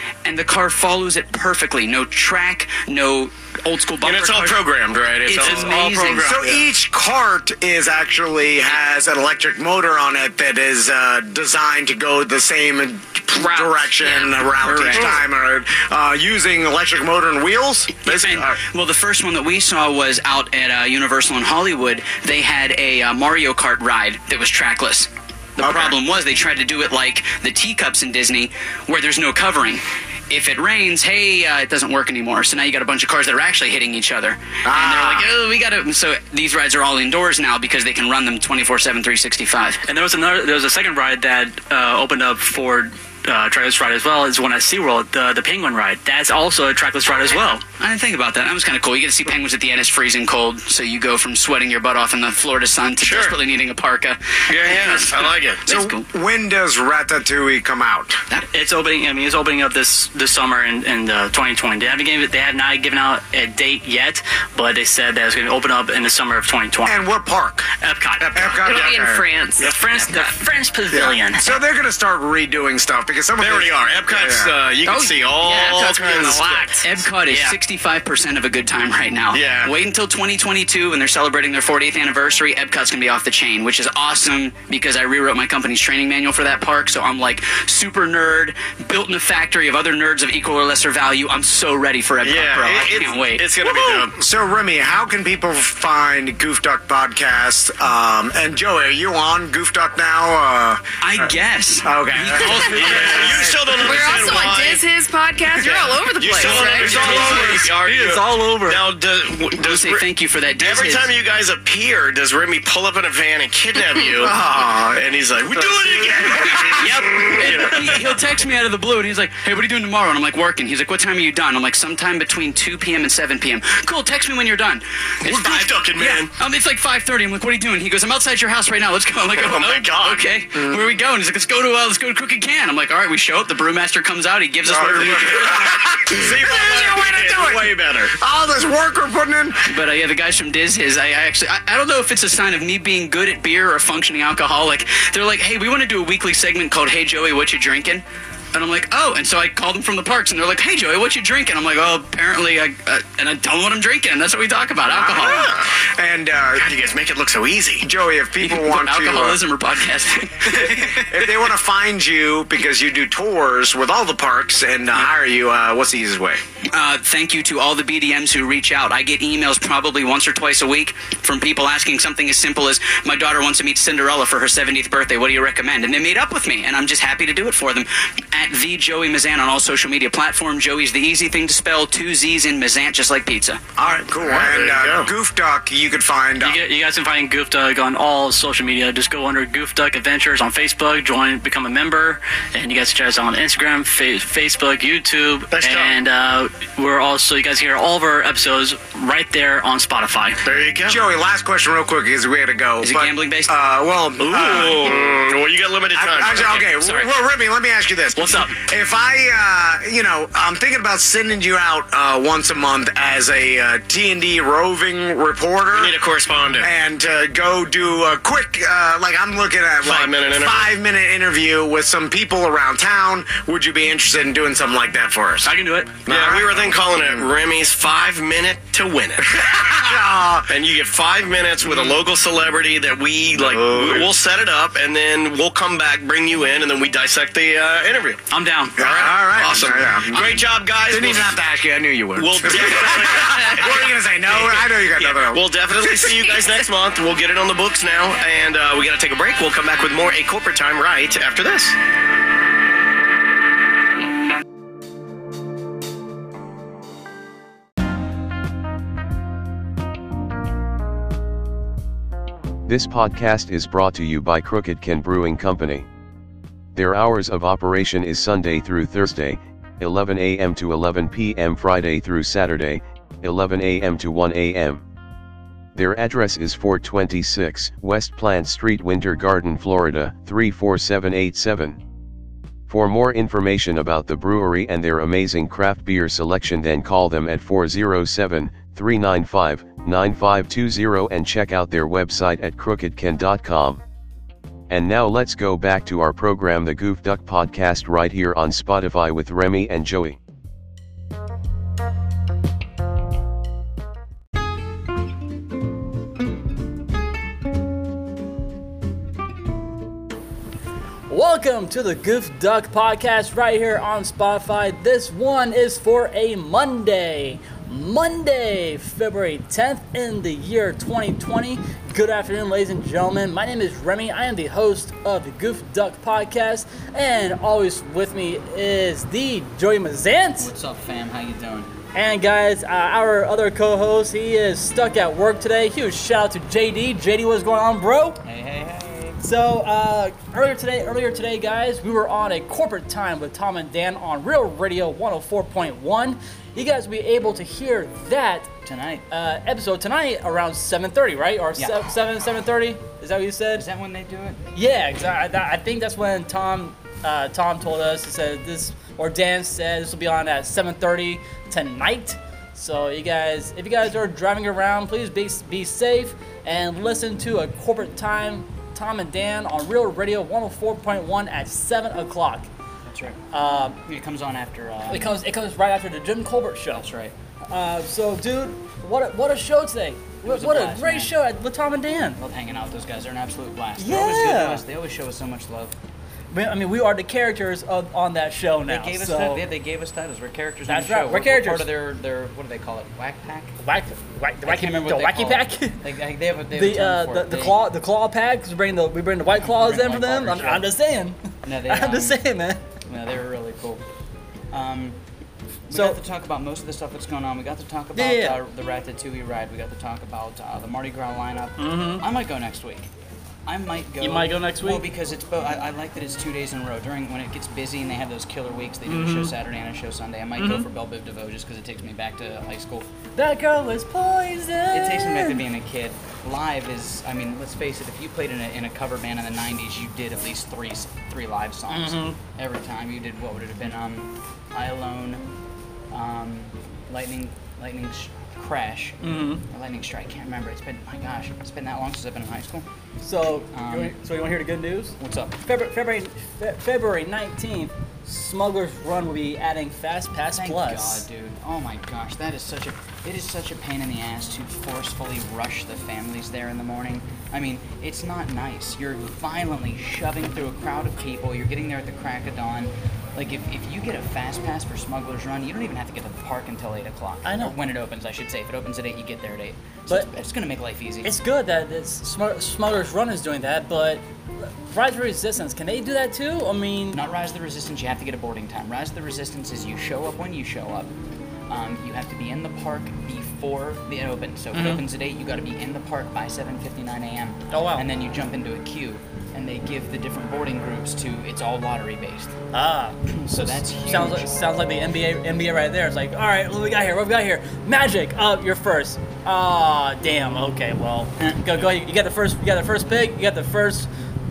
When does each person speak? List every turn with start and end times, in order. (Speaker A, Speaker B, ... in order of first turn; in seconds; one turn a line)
Speaker A: 0.2-4.6
Speaker B: 4.0-6.7
Speaker A: 5.3-6.3
Speaker C: 6.2-18.6
Speaker D: 13.4-13.9
Speaker A: 14.1-15.2
Speaker A: 18.1-39.8
Speaker C: 25.6-26.0
Speaker C: 34.6-35.3
Speaker E: 39.9-47.6
Speaker A: 47.8-56.1
Speaker B: 53.0-53.4
Speaker B: 54.5-55.6
Speaker C: 55.7-58.2
Speaker E: 58.5-67.1
Speaker C: 66.8-69.2
Speaker E: 67.8-68.4
Speaker D: 68.5-69.7
Speaker B: 68.7-69.0
Speaker E: 69.6-71.5
Speaker C: 70.9-74.5
Speaker B: 73.4-76.7
Speaker D: 74.8-76.8
Speaker A: 76.8-93.5
Speaker B: 79.3-79.7
Speaker B: 92.2-94.2
Speaker C: 93.9-104.0
Speaker A: 101.0-103.3
Speaker B: 102.5-104.8
Speaker D: 103.7-107.3
Speaker B: 105.6-110.1
Speaker A: 109.6-111.1
Speaker B: 110.6-118.1
Speaker C: 114.1-115.0
Speaker C: 115.5-116.6
Speaker A: 116.6-135.7
Speaker B: 125.2-126.3
Speaker B: 129.3-130.3
Speaker C: 134.7-139.6
Speaker B: 134.8-138.2
Speaker A: 139.7-155.5
Speaker C: 154.9-156.7
Speaker B: 155.2-155.7
Speaker B: 156.6-157.9
Speaker C: 157.8-159.4
Speaker A: 158.4-161.3
Speaker C: 160.5-166.4
Speaker A: 166.7-183.6
Speaker C: 183.8-186.6
Speaker B: 184.1-185.1
Speaker E: 186.4-200.4
Speaker B: 195.5-195.9
Speaker B: 200.4-201.0
Speaker C: 200.8-205.2
Speaker A: 202.8-203.5
Speaker B: 204.2-206.8
Speaker C: 205.9-216.0
Speaker E: 208.2-208.5
Speaker B: 215.7-216.7
Speaker C: 216.6-225.5
Speaker B: 219.8-220.7
Speaker E: 225.4-226.0
Speaker C: 226.1-227.3
Speaker B: 226.1-229.6
Speaker C: 229.3-230.5
Speaker B: 230.5-238.2
Speaker C: 231.7-232.0
Speaker C: 233.4-234.1
Speaker A: 238.3-238.8
Speaker C: 238.8-246.2
Speaker B: 238.8-241.4
Speaker B: 242.2-251.8
Speaker F: 262.7-265.9
Speaker F: 266.8-274.8
Speaker F: 275.8-281.8
Speaker F: 282.7-293.8
Speaker F: 294.7-300.2
Speaker G: 311.1-330.5
Speaker A: 330.4-331.7
Speaker G: 331.9-338.2
Speaker A: 338.2-339.2
Speaker G: 339.2-348.5
Speaker A: 348.6-349.1
Speaker G: 349.1-353.7
Speaker A: 351.6-351.9
Speaker A: 353.5-354.4
Speaker G: 354.5-372.5
Speaker A: 372.9-373.2
Speaker G: 373.3-373.8
Speaker A: 373.9-375.2
Speaker G: 374.9-376.9
Speaker A: 376.7-377.1
Speaker G: 377.5-382.2
Speaker A: 380.2-381.1
Speaker A: 382.2-385.8
Speaker G: 383.8-384.6
Speaker G: 386.3-389.5
Speaker A: 388.7-393.5
Speaker G: 390.7-391.7
Speaker G: 393.6-395.8
Speaker A: 394.4-397.6
Speaker G: 396.5-402.6
Speaker A: 399.4-400.7
Speaker A: 401.4-402.2
Speaker A: 402.9-403.8
Speaker A: 404.5-405.0
Speaker A: 405.7-412.9
Speaker G: 405.7-406.0
Speaker G: 407.9-408.4
Speaker G: 411.6-412.1
Speaker A: 413.5-422.9
Speaker G: 414.0-414.9
Speaker G: 418.9-419.4
Speaker G: 420.4-420.7
Speaker G: 423.1-425.4
Speaker A: 424.7-435.2
Speaker G: 431.7-432.2
Speaker A: 435.9-442.7
Speaker G: 439.0-439.4
Speaker G: 443.0-451.1
Speaker A: 443.5-443.9
Speaker A: 445.0-445.4
Speaker A: 450.3-471.1
Speaker G: 467.2-467.6
Speaker G: 471.0-477.0
Speaker A: 476.9-480.9
Speaker A: 481.5-492.3
Speaker G: 484.5-484.9
Speaker G: 487.5-487.9
Speaker G: 492.5-503.9
Speaker A: 493.2-494.3
Speaker A: 501.2-501.5